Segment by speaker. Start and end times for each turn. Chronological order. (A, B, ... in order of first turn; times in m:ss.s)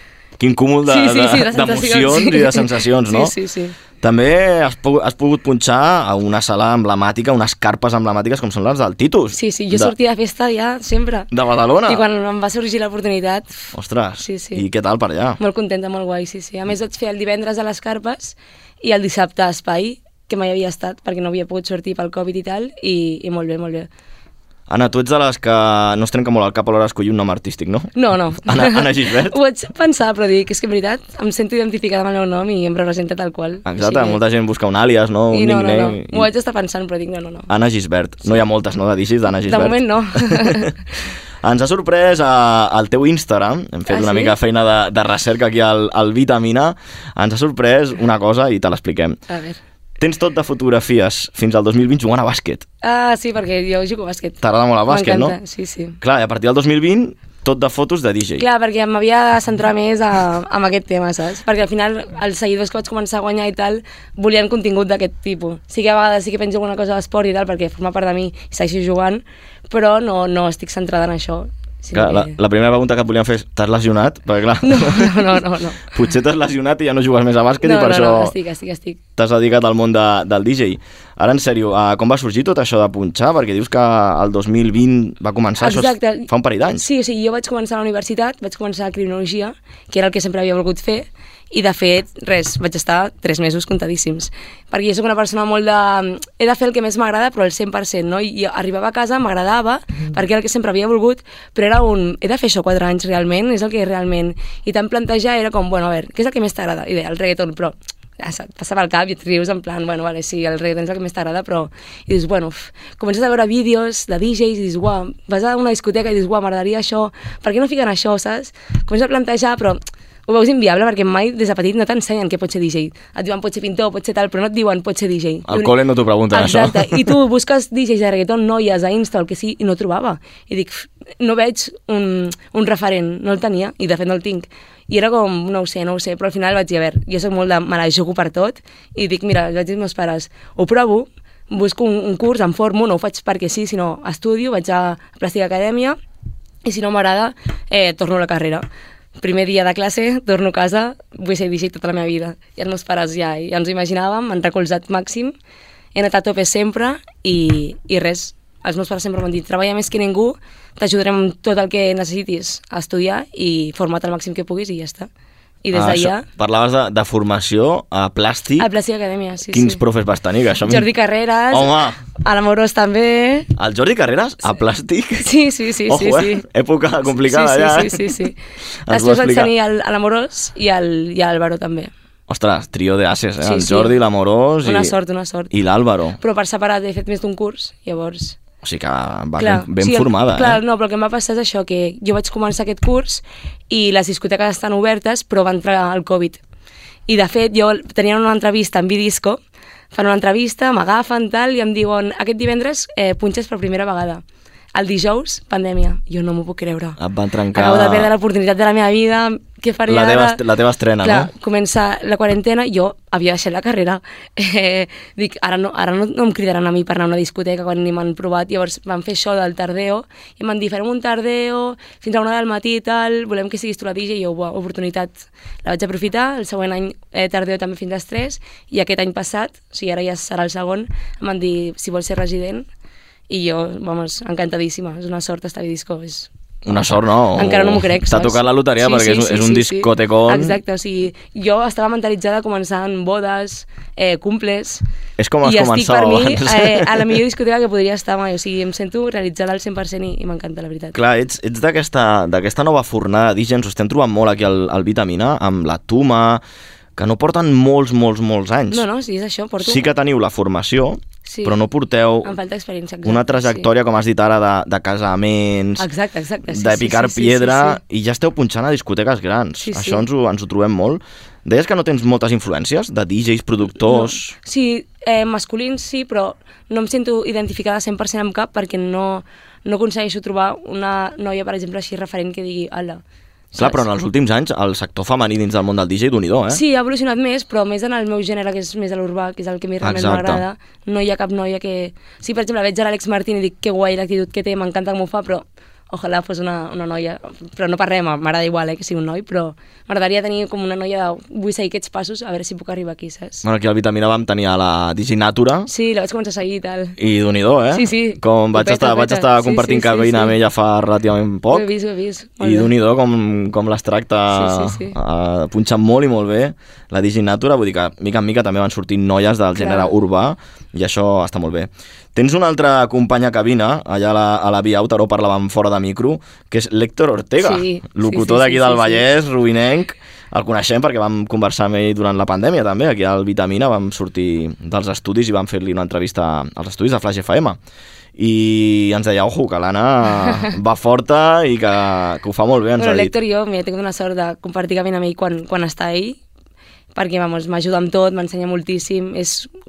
0:00.4-0:03.3 A
0:00.9-0:03.7 B
0:04.0-0:09.9 A
0:09.3-0:11.3 B
0:11.3-0:12.0 A
0:11.8-0:13.7 B
0:13.7-0:15.4 A
0:14.2-0:14.6 B
0:15.4-0:23.9 B
0:24.7-0:27.9 A
0:27.9-0:34.2 B
0:28.4-0:29.4 A
0:33.6-0:36.3 A
0:35.3-0:37.5 B
0:37.5-0:40.7 A
0:39.4-0:40.7 B
0:41.4-0:49.2 A
0:43.9-0:44.4 B
0:49.3-0:49.6 B
0:50.0-0:52.6 A
0:52.8-0:56.0 B
0:54.4-0:55.4 A
0:56.0-0:58.4 A
0:58.4-1:12.4 B
1:11.9-1:18.3 A
1:14.6-1:15.8 B
1:17.6-1:19.0 B
1:19.2-1:26.8 A
1:25.6-2:05.7 B
2:05.5-2:07.1 A
2:06.3-2:26.0 B
2:26.6-2:28.6 B
2:29.2-2:35.3 B
2:35.9-2:45.1 B
2:45.6-2:46.3 B
2:45.7-2:48.7 A
2:48.6-2:49.8 B
2:49.5-2:50.9 A
2:50.6-2:53.5 B
2:51.5-2:52.0 A
2:53.6-2:55.3 A
2:55.2-2:56.4 B
2:55.8-2:58.1 A
2:57.1-2:58.4 B
2:58.8-2:59.5 A
2:58.9-3:01.9 B
3:02.3-3:04.9 A
3:03.4-3:04.0 B
3:04.6-3:05.5 B
3:05.5-3:06.2 A
3:06.2-3:08.4 B
3:08.6-3:10.6 A
3:09.4-3:16.4 B
3:17.1-3:19.4 B
3:19.9-3:24.2 B
3:24.7-3:27.0 B
3:27.0-3:28.1 A
3:27.5-3:30.4 B
3:29.9-3:31.3 A
3:31.0-3:52.7 B
3:53.3-3:56.3 B
3:56.6-4:00.6 A
3:57.3-4:04.8 B
4:05.2-4:07.2 A
4:05.4-4:11.0 B
4:10.9-4:16.4 A
4:17.0-4:18.8 A
4:18.7-4:19.9 B
4:19.6-4:22.3 A
4:21.2-4:21.6 B
4:22.2-4:23.7 B
4:23.0-4:25.9 A
4:25.8-4:27.8 B
4:26.5-4:34.4 A
4:29.6-4:30.0 B
4:33.9-4:43.8 B
4:43.6-4:46.6 A
4:46.5-5:03.4 B
4:49.8-4:50.4 A
5:03.4-5:05.7 A
5:05.7-5:07.0 B
5:07.0-5:11.6 A
5:07.7-5:10.4 B
5:11.5-5:12.7 B
5:12.4-5:37.6 A
5:14.3-5:15.0 B
5:19.6-5:19.9 B
5:27.4-5:29.0 B
5:38.2-5:43.1 A
5:42.8-5:46.2 B
5:46.9-5:49.5 B